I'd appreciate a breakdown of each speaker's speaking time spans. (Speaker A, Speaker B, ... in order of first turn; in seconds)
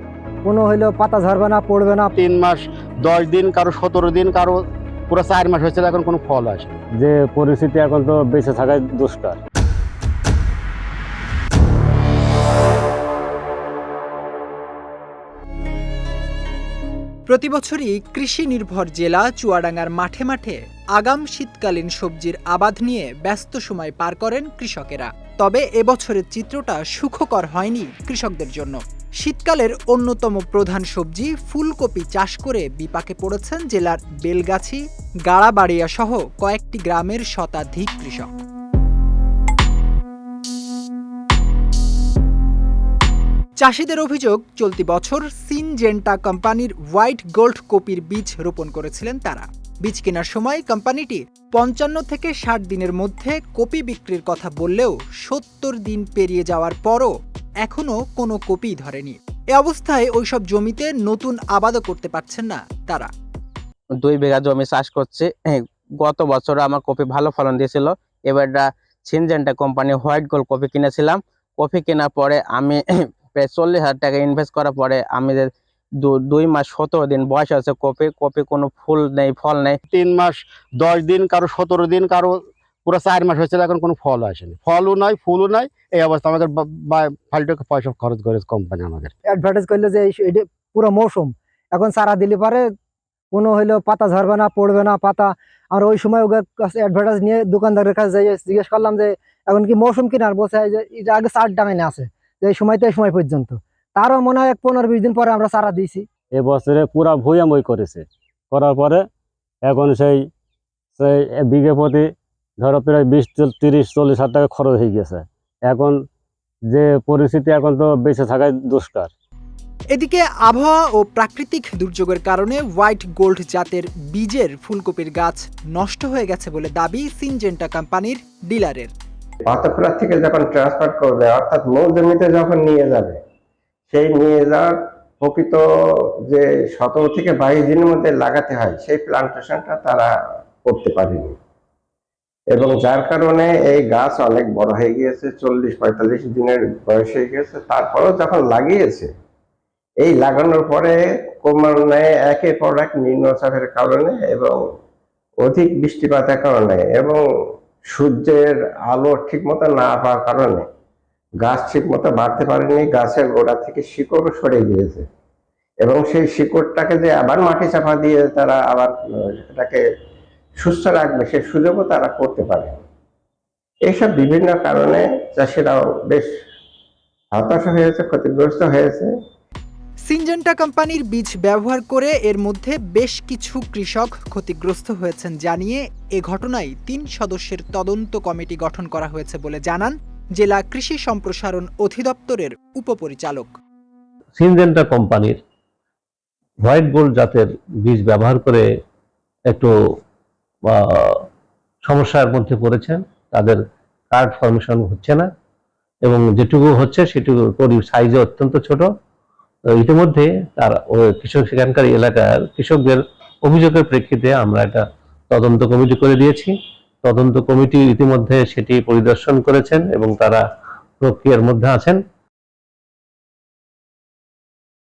Speaker A: 0.4-2.1, 89.3-92.7, 93.3-106.1
Speaker B: 2.2-6.8, 79.9-89.1
Speaker C: 6.9-9.4, 106.3-109.1, 109.6-110.3, 111.0-116.0, 116.7-119.1
Speaker D: 17.3-38.3, 43.6-57.1, 57.6-63.1, 119.9-128.9, 180.1-193.5
Speaker E: 64.0-79.8
Speaker F: 129.5-133.2, 133.9-135.6, 136.3-140.1, 140.6-141.4, 142.5-149.1, 150.0-154.6, 155.4-157.2, 157.9-160.7, 161.4-165.1, 165.8-169.8, 170.6-172.8, 173.9-176.3, 177.3-179.1
Speaker G: 194.4-195.4, 196.6-198.7, 200.7-201.2, 201.8-203.6, 204.1-205.3, 206.0-208.9, 209.8-220.4, 221.0-222.0